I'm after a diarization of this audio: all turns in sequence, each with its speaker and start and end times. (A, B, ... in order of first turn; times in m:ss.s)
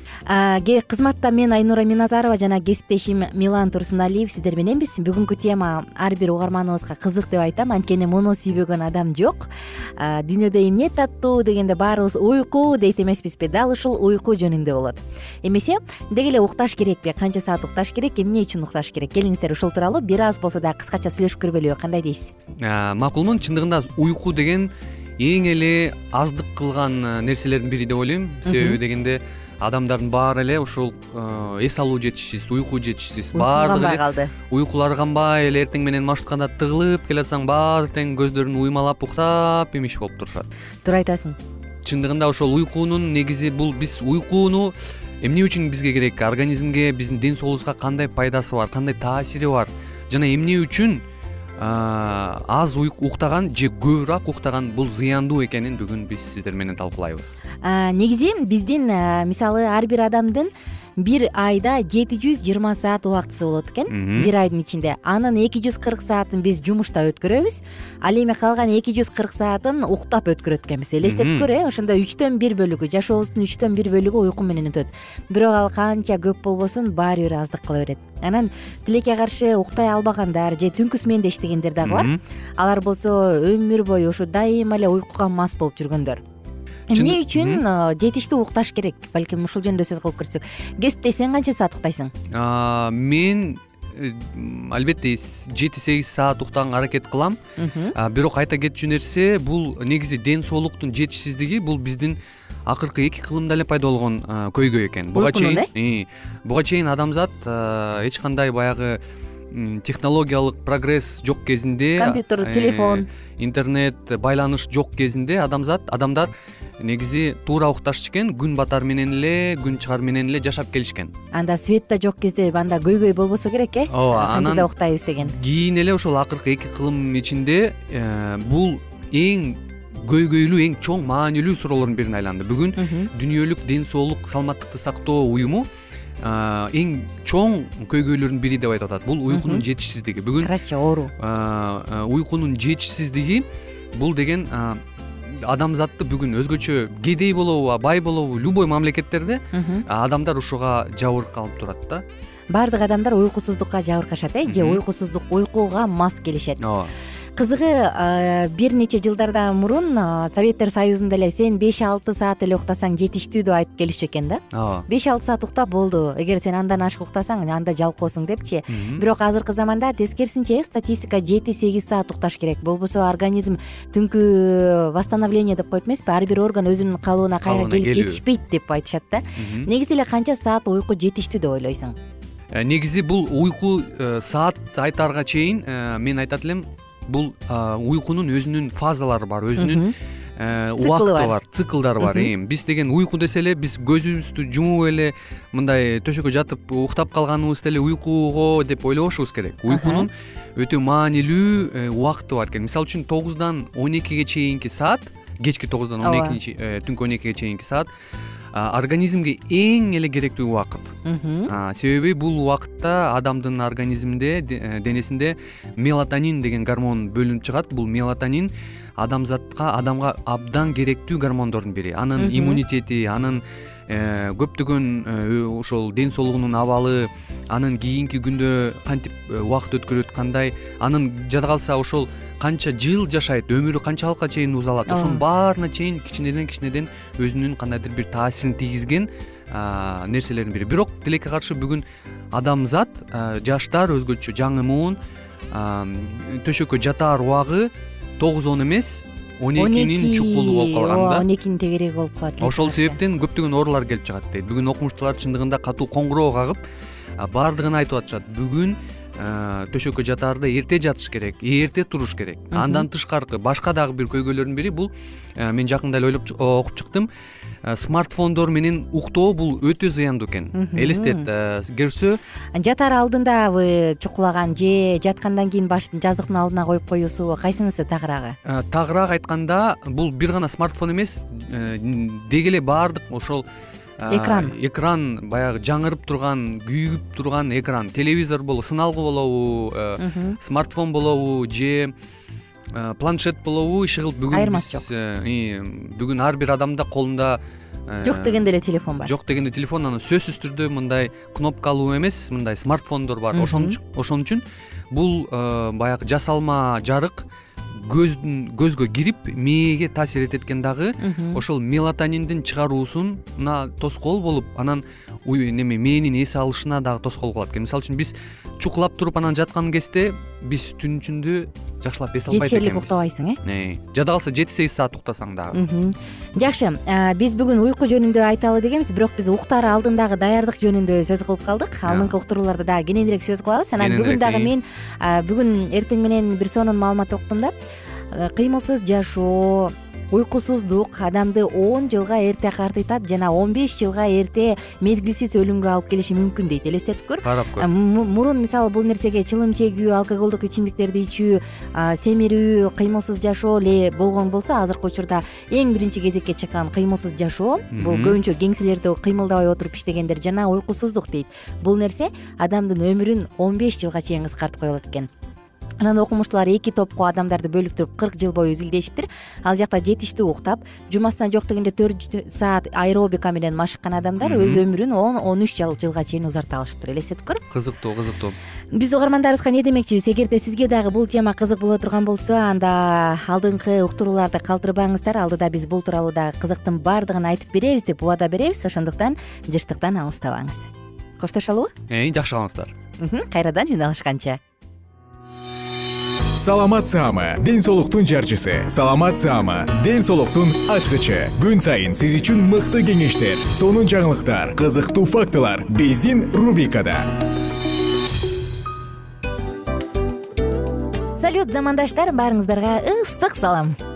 0:00.3-0:22.3 A
0:22.6-0:40.5 B
0:28.5-0:28.8 A
0:33.3-0:34.3 A
0:40.8-0:41.4 A
0:41.8-0:51.0 B
0:51.6-0:57.4 B
0:57.6-1:26.2 A
1:03.9-1:04.3 B
1:11.0-1:11.5 B
1:21.8-1:22.2 B
1:26.9-1:32.1 A
1:26.9-1:27.6 B
1:32.3-1:37.4 B
1:37.6-1:38.0 A
1:38.0-1:42.2 B
1:42.7-1:49.0 B
1:45.1-1:45.7 A
1:49.5-2:01.1 B
1:52.0-1:53.0 A
2:01.3-2:05.4 A
2:03.9-2:04.7 B
2:05.2-2:15.7 B
2:12.8-2:13.1 A
2:16.2-2:20.5 B
2:19.3-2:19.6 A
2:20.4-2:21.1 A
2:21.2-2:24.8 B
2:25.4-2:32.0 B
2:29.5-2:29.8 A
2:32.5-2:36.6 A
2:34.5-2:34.8 B
2:36.6-2:36.9 B
2:37.4-3:02.0 A
2:44.5-2:44.9 B
2:48.7-2:49.0 B
2:57.4-2:58.2 B
2:59.4-2:59.7 B
3:02.5-3:27.9 B
3:09.6-3:09.9 A
3:10.8-3:11.3 A
3:12.0-3:12.3 A
3:19.7-3:20.1 A
3:26.0-3:26.4 A
3:28.5-3:31.0 B
3:31.0-3:31.5 A
3:31.5-4:01.8 B
3:42.2-3:42.6 A
3:54.9-3:55.2 A
4:02.3-4:05.0 B
4:05.5-4:11.2 B
4:09.6-4:13.0 A
4:12.4-4:16.6 B
4:17.2-4:27.1 B
4:22.5-4:22.9 A
4:27.6-4:32.2 B
4:30.5-4:31.3 A
4:32.6-4:38.4 A
4:38.5-4:43.4 B
4:44.0-4:51.9 B
4:44.1-4:44.5 A
4:50.0-4:50.4 A
4:52.7-4:58.4 B
4:54.3-4:54.9 A
4:58.0-4:59.1 A
4:59.0-5:25.6 B
5:03.3-5:03.8 A
5:11.0-5:11.4 A
5:22.3-5:23.4 A
5:25.5-5:37.6 A
5:31.9-5:32.1 B
5:33.8-5:34.5 B
5:38.1-6:05.1 A
5:47.2-5:47.7 B
5:57.7-5:58.2 B
6:05.8-6:17.4 A
6:14.2-6:14.6 B
6:17.5-6:18.4 B
6:18.7-6:31.7 A
6:31.9-6:32.7 B
6:33.0-6:34.4 A
6:36.4-6:47.2 C
6:51.2-6:53.8 A